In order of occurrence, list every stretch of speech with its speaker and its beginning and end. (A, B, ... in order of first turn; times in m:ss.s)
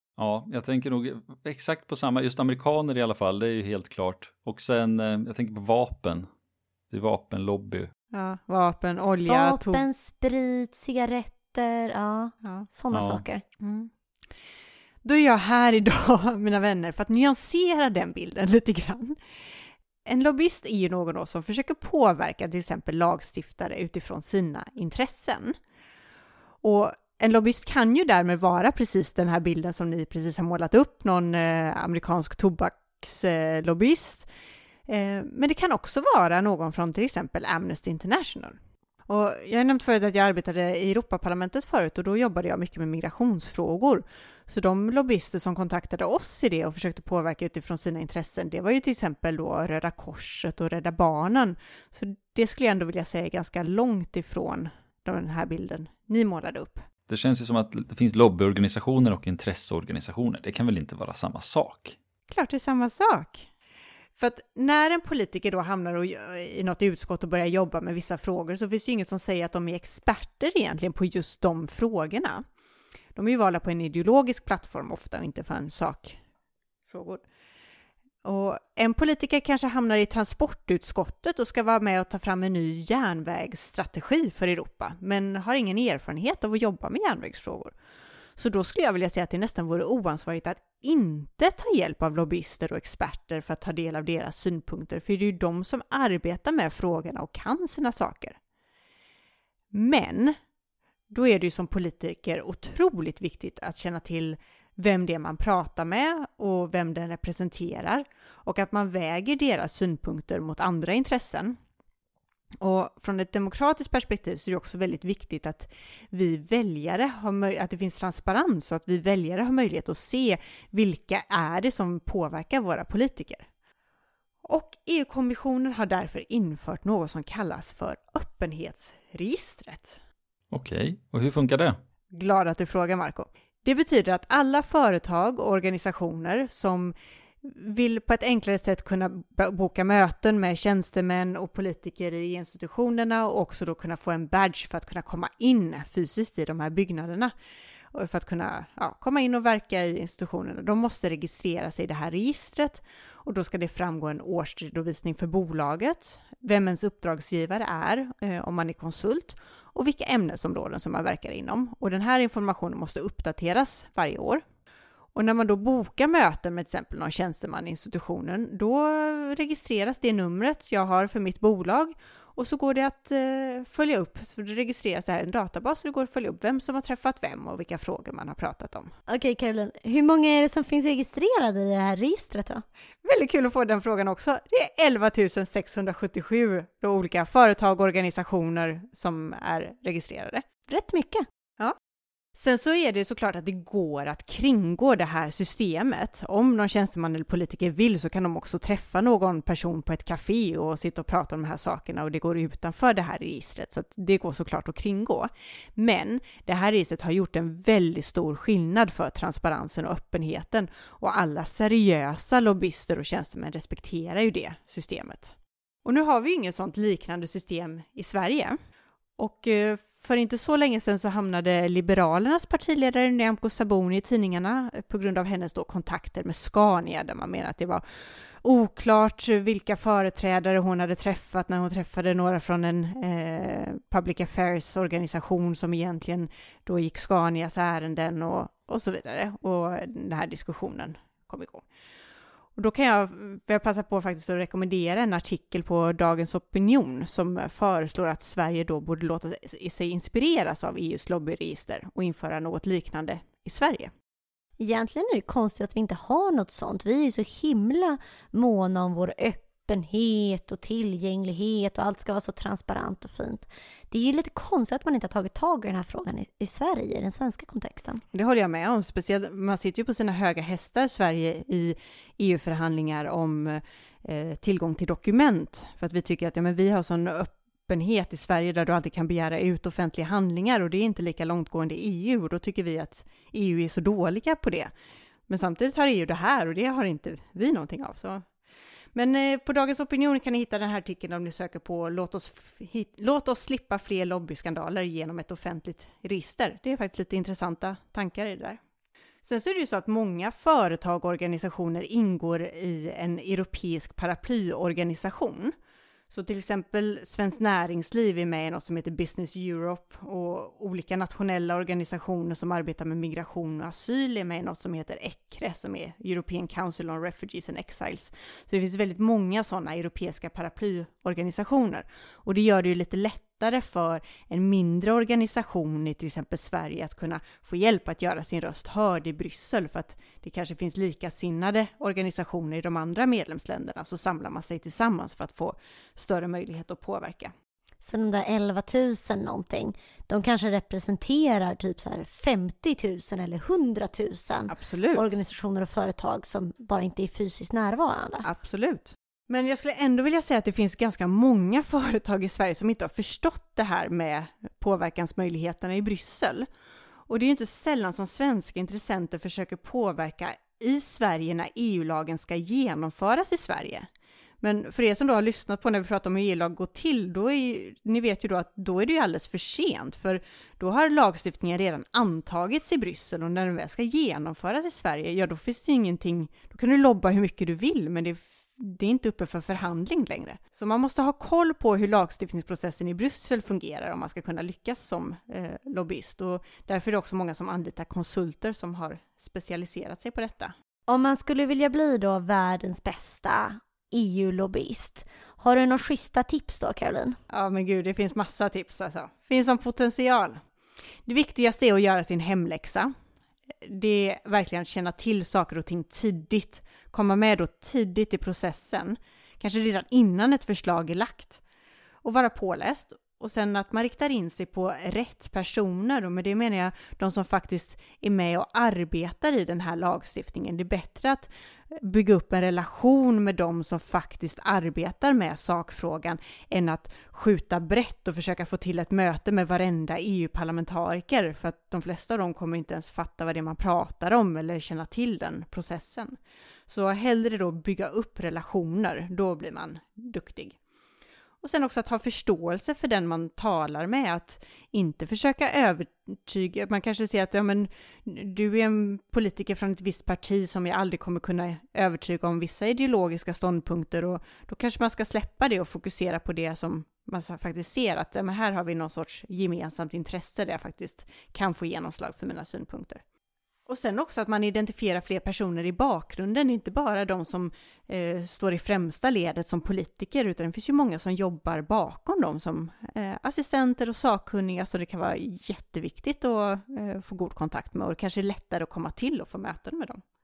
0:00.2-0:06.3 A
0:06.9-0:07.9 A
0:08.1-0:09.8 B
0:09.3-0:13.4 C
0:12.9-0:13.2 A
0:13.6-0:13.9 B
0:15.0-0:19.2 B
0:20.0-0:25.6 B
0:26.6-0:34.3 B
0:34.9-0:56.9 B
0:57.1-1:02.0 A
1:02.3-1:03.5 B
1:04.2-1:12.4 B
1:13.2-1:16.2 B
1:16.9-1:17.2 B
1:18.2-1:27.8 B
1:28.4-1:38.4 B
1:39.7-1:40.4 B
1:41.1-1:51.6 B
1:52.6-2:03.5 B
2:04.4-2:10.0 B
2:10.5-2:11.8 A
2:12.1-2:27.3 B
2:27.9-2:44.4 B
2:45.1-2:58.9 B
2:59.1-3:02.6 C
3:03.0-3:10.4 B
3:10.7-3:11.2 C
3:12.4-3:38.6 B
3:39.2-4:01.6 B
4:02.6-4:13.9 B
4:14.6-4:28.0 C
4:28.1-4:44.7 B
4:45.3-4:48.3 B
4:48.9-4:58.6 B
4:59.2-5:05.5 B
5:06.1-5:37.3 B
5:37.8-5:48.3 C
5:44.5-5:45.1 B
5:48.2-5:56.5 B
5:57.1-6:03.9 B
6:04.4-6:30.5 B
6:30.9-6:37.2 C
6:37.3-6:40.4 B
6:41.1-6:42.9 B
6:43.6-6:51.4 B
6:52.0-7:16.2 B
7:16.7-7:20.6 B
7:21.4-7:43.0 B
7:43.7-8:00.0 B